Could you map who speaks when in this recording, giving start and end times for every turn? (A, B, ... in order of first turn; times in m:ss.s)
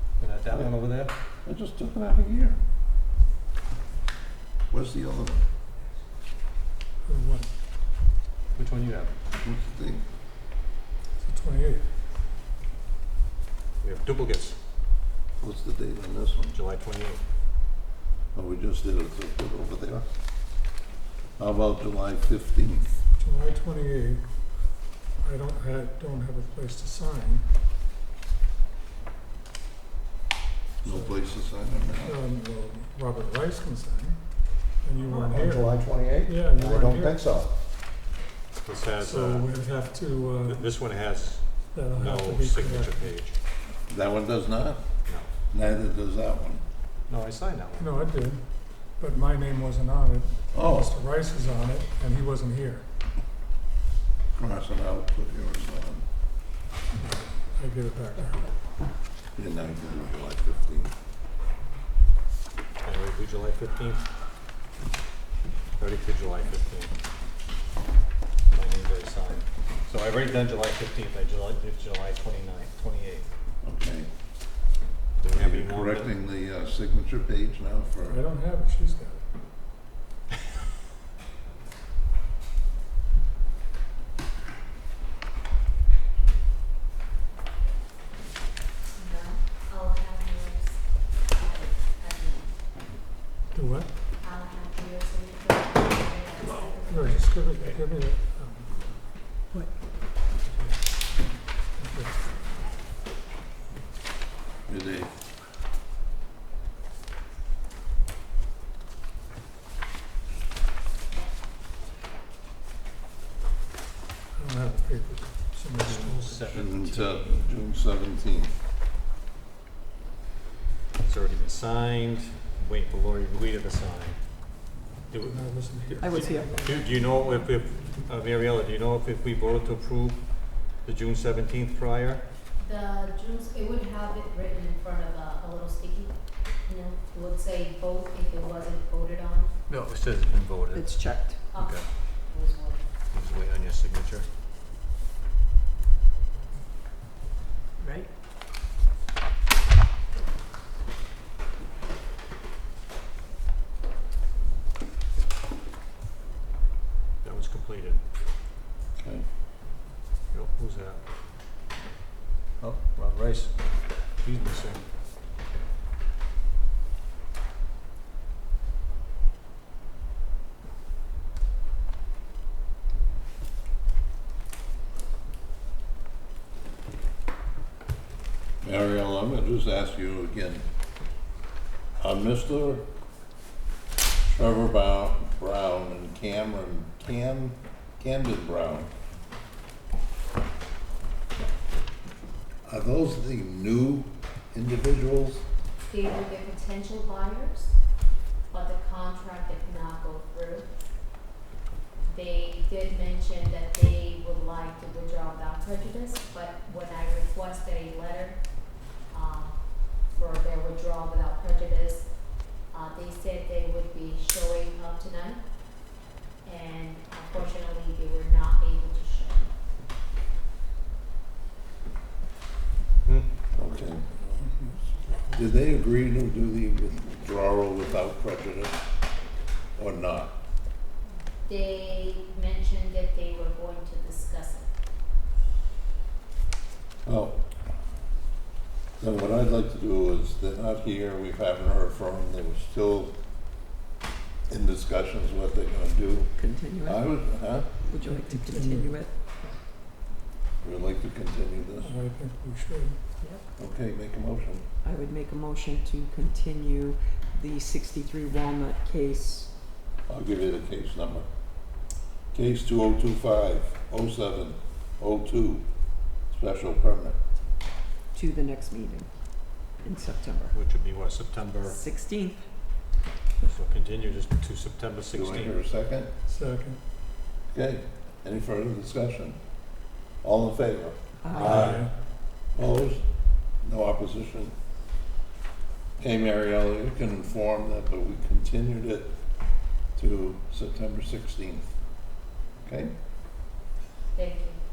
0:00.2-0:01.1 A
0:01.4-0:02.6 B
0:04.7-0:05.4 B
0:07.0-0:07.5 C
0:08.5-0:09.1 A
0:09.4-0:10.0 B
0:11.2-0:11.9 C
0:13.8-0:14.6 A
0:15.4-0:16.6 B
0:16.5-0:17.2 A
0:18.3-0:20.0 B
0:21.4-0:23.0 B
0:23.2-0:24.2 C
0:25.2-0:27.4 C
0:30.8-0:31.2 C
0:30.8-0:32.2 B
0:32.0-0:34.2 C
0:34.8-0:37.3 C
0:35.1-0:37.4 D
0:38.6-0:39.7 A
0:39.0-0:40.6 C
0:40.4-0:43.4 A
0:41.7-0:43.1 C
0:43.9-0:44.8 B
0:45.5-0:46.6 B
0:47.1-0:48.1 A
0:47.8-0:48.4 C
0:49.0-0:52.8 C
0:50.5-0:50.9 B
0:54.4-0:56.0 B
0:56.9-0:58.5 C
0:59.4-1:00.9 B
1:02.8-1:04.0 A
1:05.8-1:06.9 A
1:08.5-1:13.3 A
1:13.6-1:14.1 B
1:15.2-1:16.1 A
1:15.3-1:18.2 B
1:18.0-1:19.2 C
1:28.9-1:32.5 E
1:33.5-1:33.9 C
1:34.2-1:37.3 E
1:36.9-1:38.8 C
1:41.8-1:42.2 C
1:44.7-1:45.1 B
1:54.3-1:56.6 C
1:55.8-1:57.5 A
1:56.5-1:58.5 B
2:01.0-2:04.2 A
2:05.1-2:05.4 A
2:05.2-2:06.6 C
2:06.0-2:06.6 F
2:06.1-2:10.2 A
2:10.8-2:12.2 A
2:12.6-2:19.5 E
2:19.7-2:21.9 A
2:20.7-2:21.4 F
2:21.5-2:22.8 E
2:23.1-2:24.3 A
2:27.8-2:28.1 F
2:37.2-2:38.0 A
2:39.0-2:39.2 B
2:40.3-2:41.0 A
2:42.6-2:43.6 A
2:44.2-2:44.8 A
2:58.6-3:00.6 B
3:02.0-3:02.9 B
3:04.3-3:08.9 B
3:12.6-3:15.4 B
3:15.9-3:17.8 E
3:18.5-3:20.7 E
3:22.0-3:39.5 E
3:43.5-3:44.4 B
3:45.3-3:48.8 B
3:49.8-3:50.4 B
3:51.4-3:54.7 E
3:57.0-3:57.6 B
3:59.0-4:03.1 B
4:04.5-4:07.7 B
4:06.4-4:07.1 F
4:07.8-4:09.1 F
4:08.1-4:09.0 C
4:10.6-4:11.9 B
4:11.8-4:13.0 C
4:13.6-4:14.6 B
4:14.8-4:19.5 F
4:20.1-4:21.3 B
4:22.3-4:25.7 B
4:26.2-4:27.2 B
4:28.1-4:29.1 F
4:29.6-4:30.5 F
4:30.5-4:31.8 A
4:31.6-4:32.4 F
4:33.4-4:35.6 A
4:35.1-4:36.1 B
4:36.3-4:36.8 C
4:37.5-4:39.4 B
4:40.2-4:41.0 B
4:41.2-4:41.7 F
4:41.3-4:41.8 A
4:41.3-4:41.9 C
4:42.5-4:43.0 B
4:43.6-4:44.5 B
4:46.0-4:49.1 B
4:50.0-4:51.7 B
4:52.6-4:52.9 B
4:54.1-4:54.6 E